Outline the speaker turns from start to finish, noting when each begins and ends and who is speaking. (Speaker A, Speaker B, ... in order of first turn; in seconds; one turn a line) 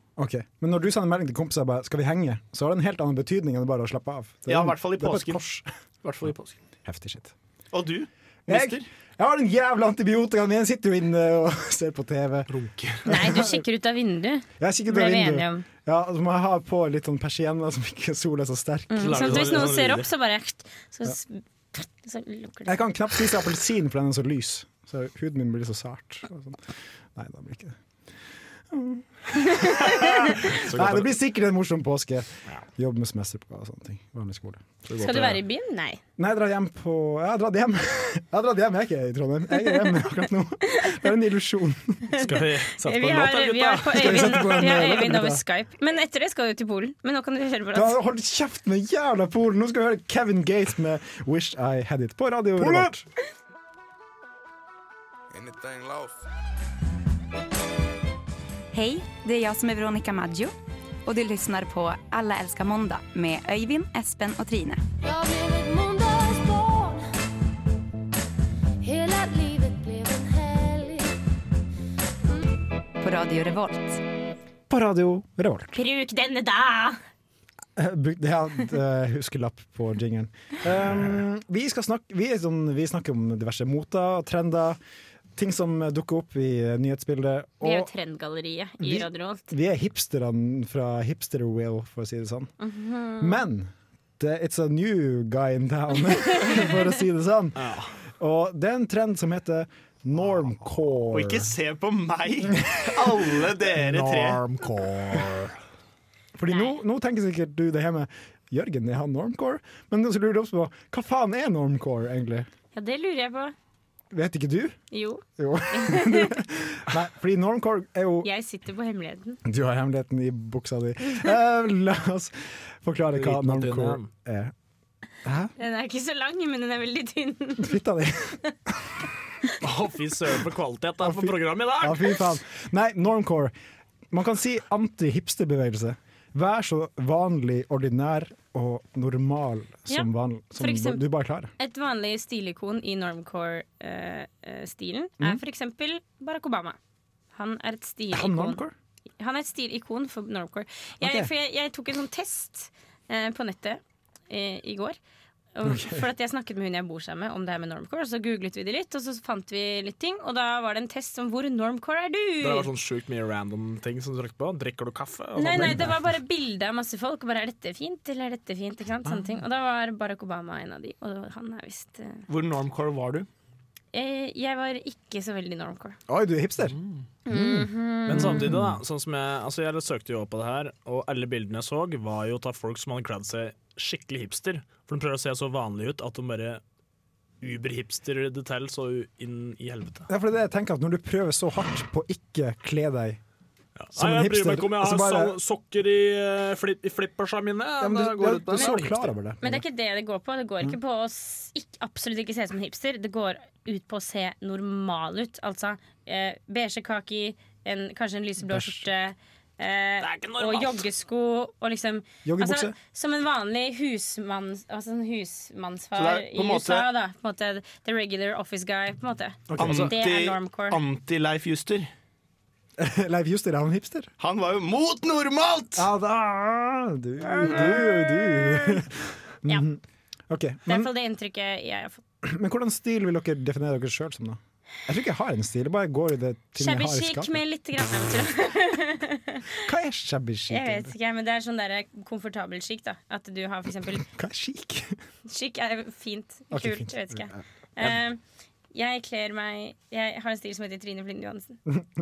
Speaker A: 0.2-5.7
Speaker B: 4.5-5.4
Speaker B: 6.0-6.6
Speaker A: 6.8-7.3
Speaker B: 7.7-8.9
Speaker A: 8.5-12.5
Speaker A: 13.1-13.6
Speaker C: 13.1-15.7
Speaker A: 14.6-19.7
Speaker C: 18.9-22.8
Speaker D: 19.0-20.1
Speaker A: 22.7-27.8
Speaker A: 28.7-34.6
Speaker C: 29.5-30.2
Speaker D: 30.4-31.2
Speaker D: 34.9-35.4
Speaker C: 35.0-36.0
Speaker A: 36.2-42.1
Speaker C: 39.6-40.1
Speaker D: 42.2-44.8
Speaker C: 42.8-48.0
Speaker A: 43.9-45.4
Speaker A: 47.7-53.0
Speaker D: 52.6-52.9
Speaker E: 55.4-56.1
Speaker E: 58.7-60.5
Speaker E: 61.0-64.8
Speaker F: 65.0-67.0
Speaker F: 68.8-71.2
Speaker E: 73.0-74.0
Speaker A: 74.7-75.8
Speaker C: 75.7-77.0
Speaker A: 77.8-84.8
Speaker A: 85.4-87.9
Speaker C: 87.6-89.5
Speaker A: 88.8-92.5
Speaker C: 92.6-93.4
Speaker A: 93.2-101.5
Speaker C: 96.3-96.6
Speaker D: 97.6-97.9
Speaker B: 101.1-104.4
Speaker A: 102.5-103.2
Speaker D: 104.3-105.3
Speaker A: 106.4-112.5
Speaker C: 112.7-113.5
Speaker A: 114.1-114.8
Speaker C: 114.9-116.4
Speaker A: 115.4-118.3
Speaker C: 118.2-119.4
Speaker A: 119.5-124.5
Speaker D: 123.2-124.1
Speaker A: 125.2-125.5
Speaker C: 125.6-127.8
Speaker A: 127.6-128.4
Speaker D: 129.6-132.2
Speaker A: 131.0-133.5
Speaker A: 134.1-141.5
Speaker C: 139.9-141.1
Speaker C: 141.6-146.8
Speaker C: 147.3-148.6
Speaker A: 148.1-148.7
Speaker C: 149.2-155.0
Speaker A: 151.0-151.3
Speaker C: 155.6-162.7
Speaker A: 155.6-156.1
Speaker D: 162.4-166.0
Speaker C: 165.4-172.2
Speaker A: 165.6-165.8
Speaker B: 172.3-173.3
Speaker C: 173.9-176.0
Speaker A: 176.1-176.8
Speaker C: 177.3-178.5
Speaker A: 177.3-178.7
Speaker D: 178.1-186.6
Speaker D: 187.4-190.1
Speaker A: 190.1-193.2
Speaker D: 193.8-199.1
Speaker A: 193.9-195.4
Speaker A: 197.8-199.6
Speaker C: 199.4-220.8
Speaker A: 208.4-208.9
Speaker D: 210.0-210.7
Speaker A: 212.2-212.8
Speaker B: 215.9-216.9
Speaker A: 219.5-219.9
Speaker B: 219.6-221.9
Speaker A: 222.8-224.1
Speaker B: 224.2-225.9
Speaker A: 225.8-230.9
Speaker C: 227.6-228.3
Speaker C: 230.7-232.0
Speaker A: 232.2-237.4
Speaker C: 236.6-239.6
Speaker A: 239.6-240.9
Speaker C: 240.5-244.1
Speaker A: 244.0-245.0
Speaker C: 245.3-248.2
Speaker A: 246.5-247.4
Speaker C: 248.7-251.6